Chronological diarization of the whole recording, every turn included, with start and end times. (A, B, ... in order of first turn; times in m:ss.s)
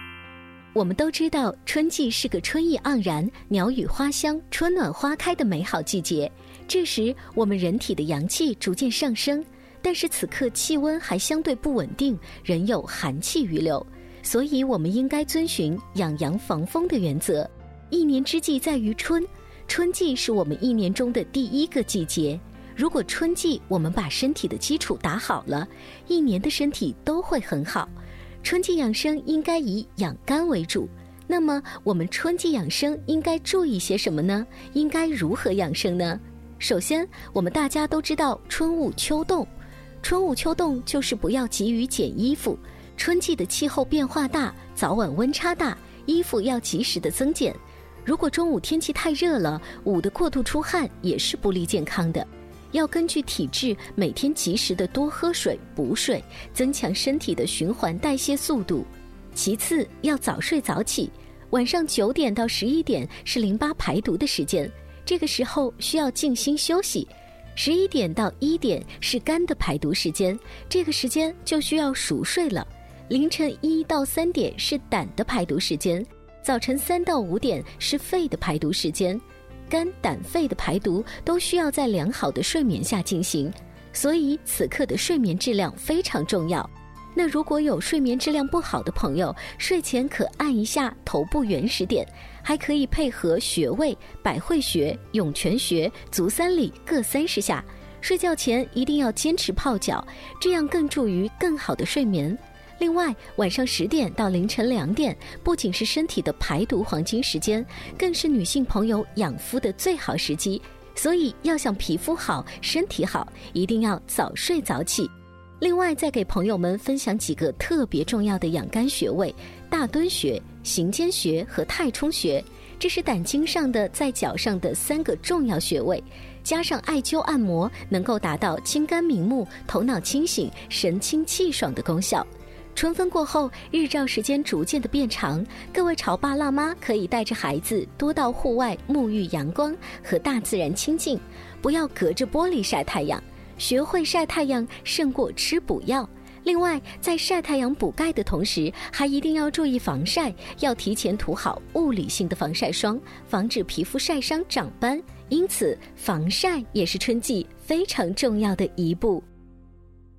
0:00.8-0:27.9 A
0:28.4-0:39.5 A
0:40.0-2:39.3 A